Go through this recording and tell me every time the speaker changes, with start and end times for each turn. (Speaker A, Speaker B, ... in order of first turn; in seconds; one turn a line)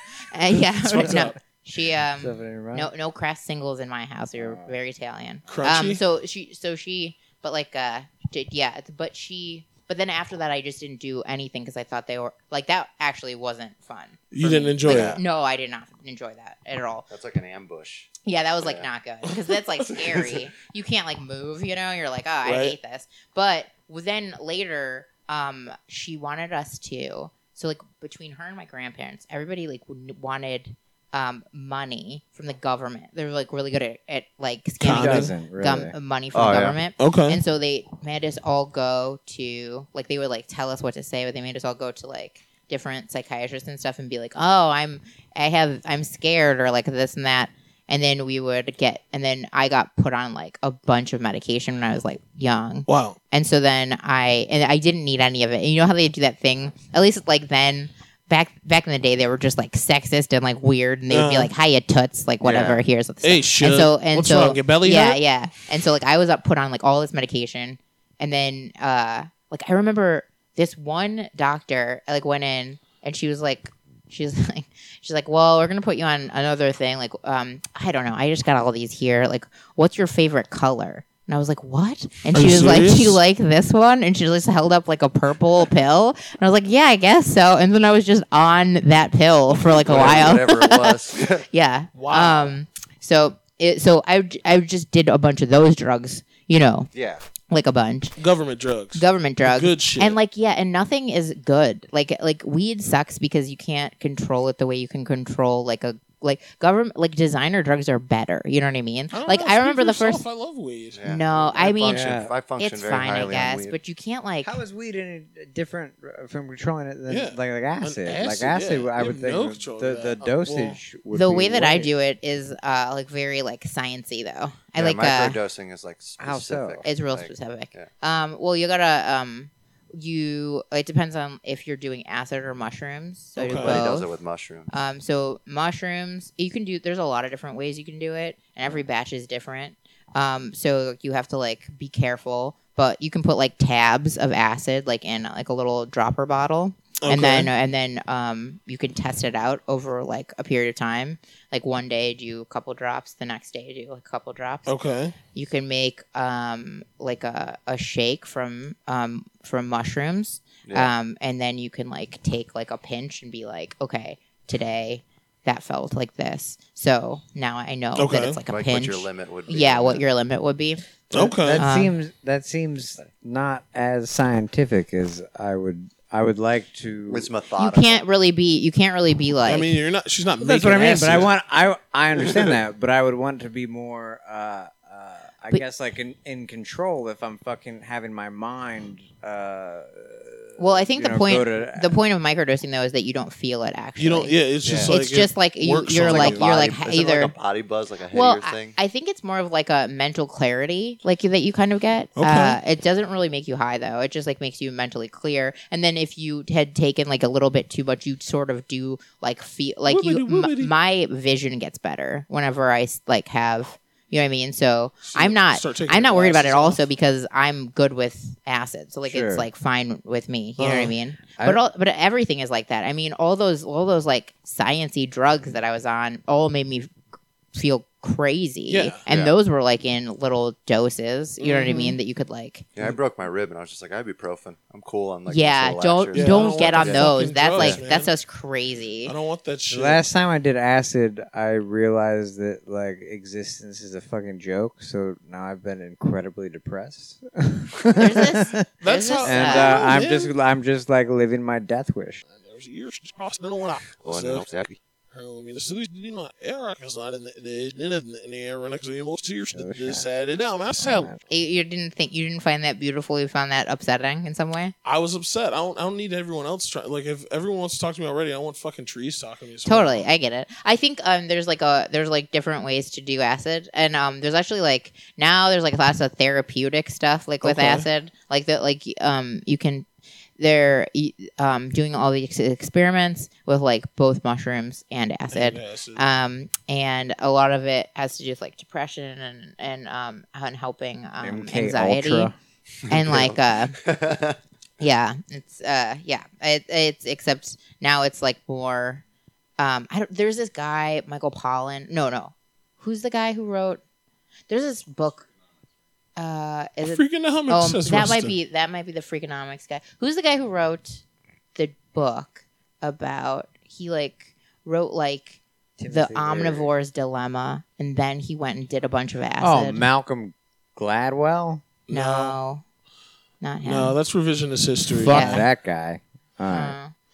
Speaker A: 0.3-17.1
Speaker B: 0.8-1.4
Speaker C: 1.0-1.3
Speaker C: 2.2-2.9
Speaker C: 4.4-4.7
Speaker B: 5.5-6.0
Speaker B: 14.3-15.2
Speaker D: 14.8-15.2
Speaker D: 17.1-18.9
Speaker A: 18.2-91.0
Speaker B: 19.9-20.3
Speaker B: 22.4-22.8
Speaker B: 34.8-35.3
Speaker C: 34.8-35.9
Speaker D: 36.3-36.8
Speaker B: 37.0-37.4
Speaker B: 52.9-53.2
Speaker B: 61.1-61.5
Speaker D: 62.4-62.7
Speaker B: 63.2-65.2
Speaker B: 82.3-83.2
Speaker D: 89.5-91.4
Speaker A: 91.5-96.9
Speaker B: 91.9-92.5
Speaker D: 96.9-97.2
Speaker A: 97.5-98.2
Speaker B: 98.2-100.2
Speaker A: 98.9-110.2
Speaker B: 109.1-111.0
Speaker D: 110.9-113.8
Speaker A: 111.0-114.6
Speaker C: 111.9-112.3
Speaker C: 114.4-121.9
Speaker B: 117.1-120.8
Speaker A: 121.1-125.4
Speaker D: 124.8-127.9
Speaker C: 126.2-126.8
Speaker A: 126.8-134.1
Speaker B: 133.4-133.8
Speaker D: 133.5-134.7
Speaker A: 134.7-154.7
Speaker B: 147.0-147.5
Speaker B: 154.7-155.1
Speaker A: 155.3-170.8
Speaker D: 160.7-160.9
Speaker B: 167.9-168.4
Speaker D: 168.5-170.0
Speaker B: 171.1-171.6
Speaker C: 171.1-177.3
Speaker A: 171.5-171.9
Speaker D: 177.1-178.0
Speaker A: 177.6-179.7
Speaker B: 179.4-181.3
Speaker C: 180.4-192.0
Speaker A: 190.6-197.3
Speaker B: 194.0-196.5
Speaker D: 194.6-194.9
Speaker D: 196.0-198.8
Speaker A: 198.1-226.9
Speaker B: 202.2-202.6
Speaker B: 209.9-210.7
Speaker B: 215.1-216.8
Speaker C: 219.1-219.5
Speaker C: 220.6-221.6
Speaker A: 227.5-232.7
Speaker B: 228.7-229.0
Speaker D: 229.1-229.3
Speaker B: 231.4-232.0
Speaker D: 232.7-237.8
Speaker A: 235.3-239.1
Speaker B: 236.1-238.1
Speaker B: 239.1-240.0
Speaker C: 239.7-248.6
Speaker A: 247.9-249.9
Speaker B: 248.8-250.3
Speaker C: 249.2-252.2
Speaker B: 252.3-254.4
Speaker D: 254.0-254.8
Speaker B: 255.1-261.1
Speaker C: 259.5-260.1
Speaker C: 260.8-261.2
Speaker A: 261.3-264.7
Speaker B: 264.8-270.0
Speaker A: 269.6-279.9
Speaker B: 277.4-277.9
Speaker A: 280.4-292.3
Speaker B: 285.3-286.0
Speaker C: 291.2-292.3
Speaker D: 292.9-294.4
Speaker A: 292.9-293.8
Speaker A: 294.8-299.0
Speaker A: 299.6-303.8
Speaker A: 304.5-305.3
Speaker A: 306.1-311.0
Speaker B: 306.8-308.3
Speaker A: 311.5-319.9
Speaker C: 315.8-316.7
Speaker C: 319.4-321.6
Speaker B: 321.9-322.4
Speaker A: 321.9-322.6
Speaker A: 323.4-323.9
Speaker B: 323.6-325.4
Speaker C: 324.9-326.8
Speaker A: 325.1-325.4
Speaker A: 326.5-326.9